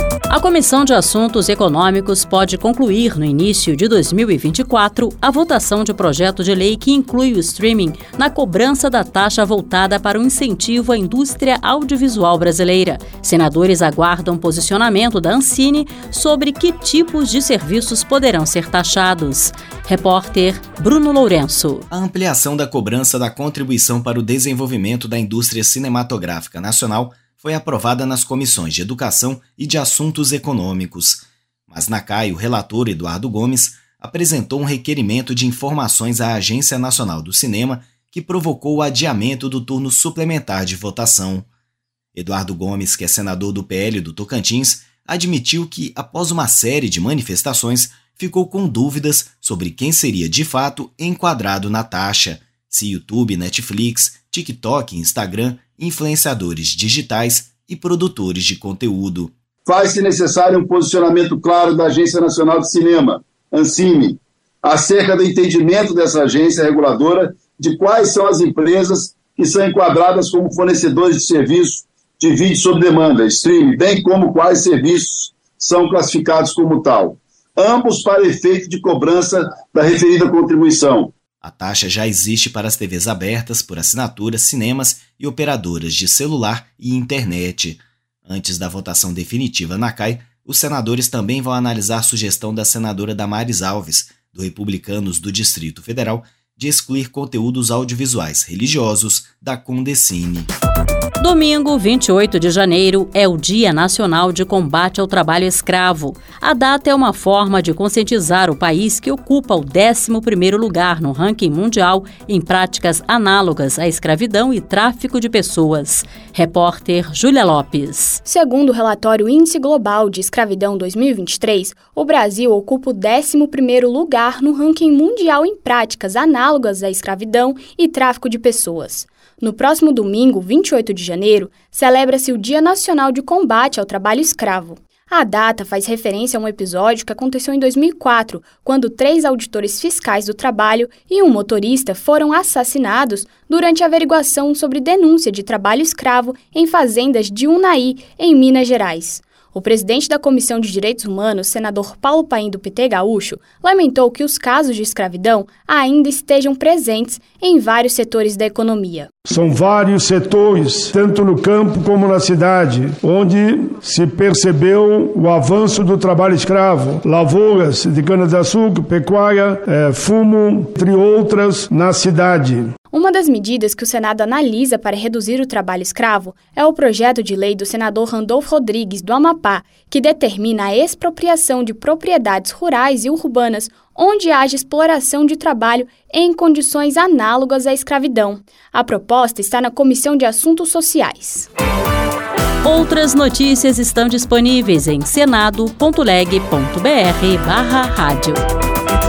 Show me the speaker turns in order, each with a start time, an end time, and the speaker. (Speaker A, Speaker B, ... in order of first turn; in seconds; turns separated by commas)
Speaker A: 0.3-21.9, Speaker B: 21.9-41.5, Speaker B: 42.1-59.3, Speaker C: 59.6-81.1, Speaker B: 81.4-100.5, Speaker A: 101.2-118.2, Speaker D: 118.2-159.1, Speaker E: 159.2-172.7, Speaker D: 172.9-191.5, Speaker A: 192.6-198.4